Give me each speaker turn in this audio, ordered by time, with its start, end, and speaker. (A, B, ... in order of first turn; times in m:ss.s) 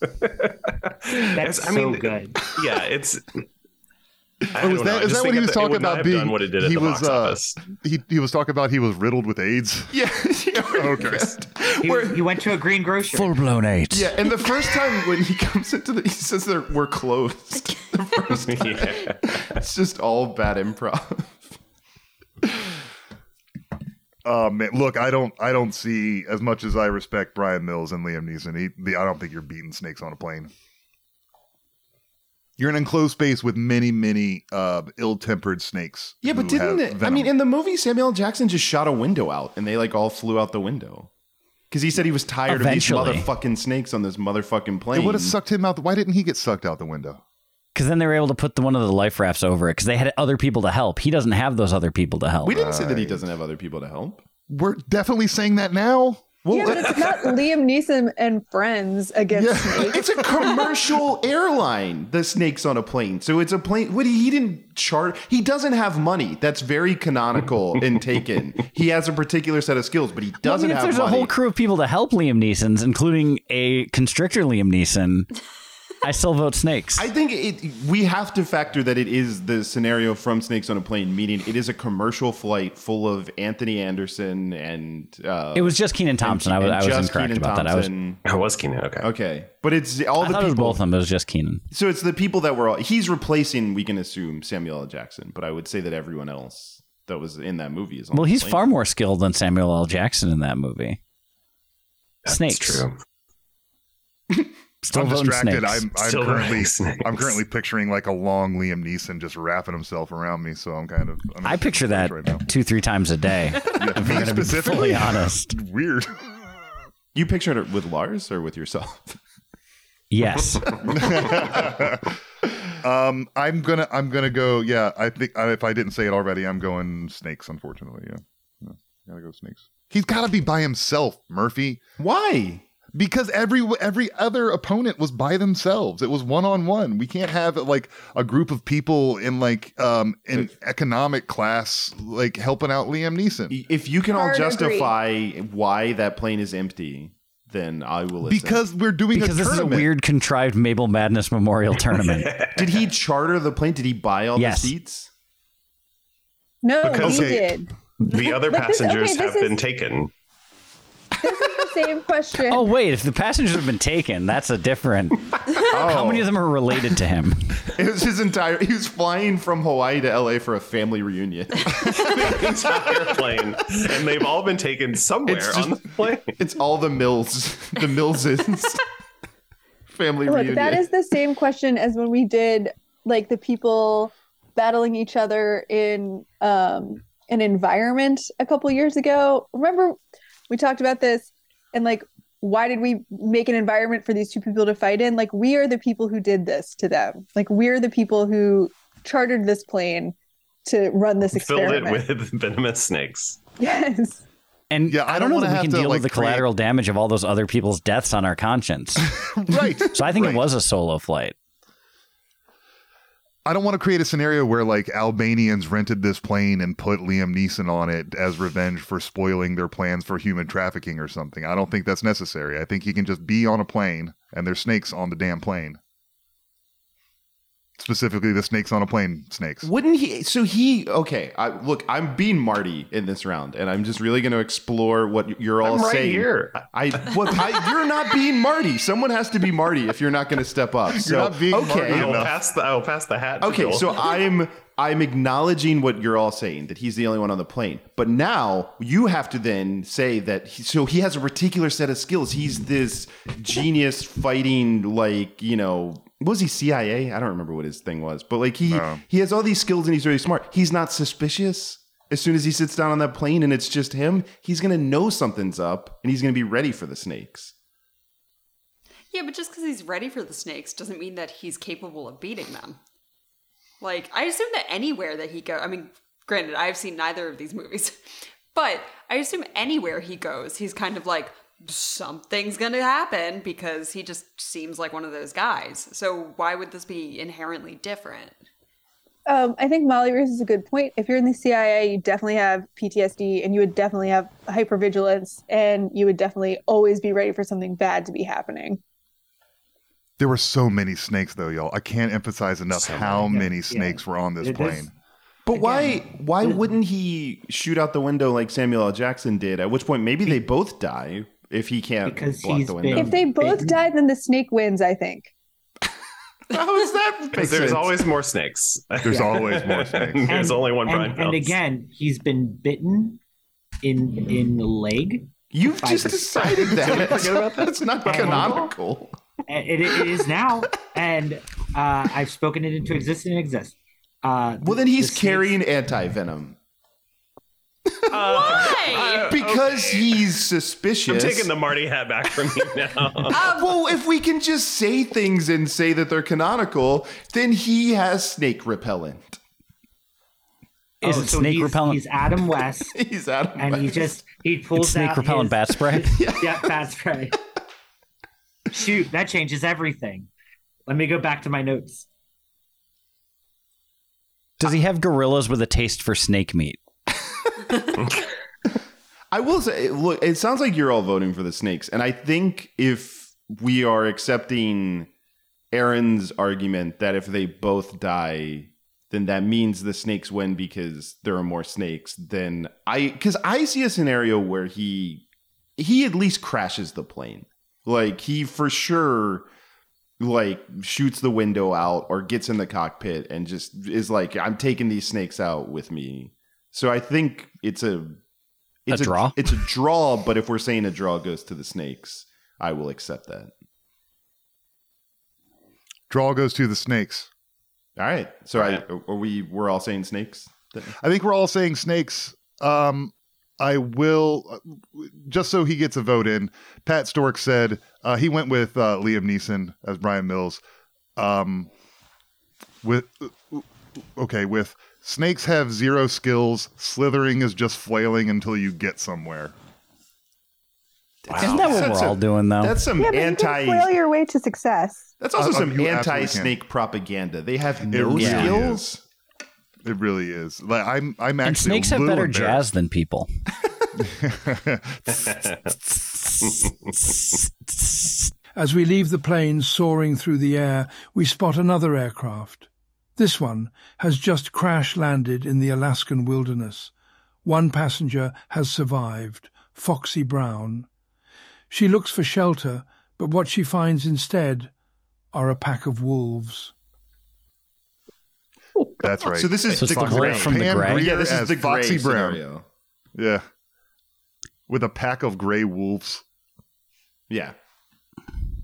0:00.2-0:03.4 A
0:01.4-0:02.5 B
0:04.5-0:07.6 A
0:04.6-0:09.9 C
0:09.9-0:12.3 D
0:10.6-0:11.4 C
0:11.8-0:13.4 B
0:13.1-0:14.1 E
0:13.9-0:21.5 D
0:18.4-0:19.2 A
0:24.2-0:30.5 C
0:32.6-0:37.3 C
0:36.2-0:41.1 D
0:41.7-0:45.4 D
0:42.5-0:43.3 E
0:44.9-0:47.2 C
0:47.7-0:52.6 E
0:52.4-0:54.2 D
0:52.5-0:53.2 C
0:54.5-0:56.7 C
0:56.4-0:57.1 D
0:56.5-1:00.0 F
0:59.3-1:00.2 C
0:59.8-1:11.3 D
1:10.4-1:15.3 E
1:16.0-1:17.1 E
1:17.0-1:28.2 D
1:25.5-1:27.9 E
1:28.2-1:29.1 A
1:29.0-1:30.8 D
1:30.2-1:31.6 E
1:31.7-1:38.7 D
1:38.1-1:41.0 E
1:42.3-1:42.9 E
1:42.3-1:42.9 A
1:44.8-1:45.9 E
1:44.9-1:52.4 C
1:46.0-1:47.4 A
1:51.4-1:55.5 E
1:53.8-1:56.2 C
1:57.1-1:59.2 D
2:00.1-2:00.7 E
2:00.9-2:02.1 C
2:02.8-2:11.8 C
2:12.0-2:12.6 D
2:12.9-2:23.5 C
2:23.5-2:28.6 D
2:24.1-2:24.9 F
2:28.3-2:29.9 C
2:29.1-2:32.3 E
2:32.1-2:32.6 A
2:32.6-2:35.1 D
2:34.4-2:34.7 E
2:36.6-2:37.7 F
2:36.8-2:37.4 A
2:37.0-2:37.5 C
2:38.0-2:40.1 A
2:38.4-2:39.6 F
2:41.2-2:42.7 F
2:42.5-2:47.5 E
2:45.7-2:46.3 D
2:47.7-2:53.2 D
2:51.9-2:56.3 A
2:55.3-2:58.8 D
2:59.9-3:00.9 D
3:00.3-3:10.0 F
3:10.5-3:22.0 F
3:21.3-3:23.4 A
3:23.6-3:24.2 F
3:24.7-3:29.1 E
3:24.9-3:26.5 C
3:29.2-3:30.5 C
3:29.9-3:31.3 E
3:33.4-3:45.8 C
3:47.8-3:49.7 C
3:49.6-4:02.2 D
3:55.6-3:56.6 A
4:01.0-4:02.3 C
4:01.9-4:04.0 A
4:03.4-4:27.5 D
4:18.7-4:19.0 C
4:29.1-4:32.8 G
4:33.8-4:38.0 G
4:38.5-4:48.4 G
4:49.2-4:58.8 F
5:00.2-5:04.9 C
5:02.7-5:03.5 A
5:03.3-5:04.9 B
5:05.4-5:13.2 D
5:05.5-5:06.6 B
5:12.0-5:13.8 B
5:12.9-5:15.3 F
5:16.5-5:18.1 D
5:17.3-5:21.6 A
5:19.0-5:20.4 C
5:20.2-5:23.2 B
5:23.8-5:27.2 B
5:25.5-5:29.2 D
5:26.5-5:28.7 A
5:28.0-5:28.6 B
5:29.5-5:35.6 B
5:34.6-5:36.6 D
5:37.9-5:41.5 D
5:38.1-5:40.3 A
5:38.2-5:39.3 G
5:41.1-5:43.4 A
5:43.3-5:49.4 D
5:43.3-5:43.8 G
5:51.0-5:52.9 B
5:51.0-5:52.0 E
5:52.9-5:54.2 D
5:53.6-5:57.4 B
5:54.8-5:56.2 E
5:56.1-5:56.7 D
5:58.7-6:00.3 B
6:00.9-6:02.1 B
6:04.6-6:06.8 E
6:09.3-6:15.1 D
6:15.7-6:25.2 D
6:25.8-6:29.5 D
6:30.2-6:38.2 D
6:38.9-6:43.5 D
6:38.9-6:39.4 E
6:46.1-6:47.3 C
6:48.0-6:50.9 D
6:48.6-6:48.8 A
6:51.0-7:00.6 C
7:01.2-7:01.7 C
7:02.8-7:03.6 C
7:04.2-7:09.5 C
7:11.2-7:13.9 D
7:11.3-7:11.7 A
7:11.4-7:12.8 E
7:13.0-7:15.1 F
7:15.2-7:19.0 D
7:15.3-7:16.6 C
7:17.9-7:18.8 C
7:18.2-7:18.5 E
7:19.8-7:22.6 C
7:21.4-7:23.3 E
7:24.0-7:25.2 C
7:25.1-7:25.5 A
7:25.9-7:28.3 E
7:28.5-7:36.9 H
7:37.4-7:40.9 H
7:41.7-7:44.7 H
7:45.3-7:46.7 H
7:49.0-7:52.4 C
7:49.3-7:52.6 D
7:49.7-7:51.1 E
7:53.1-7:53.4 C
7:54.7-7:56.2 C
7:57.3-7:57.5 D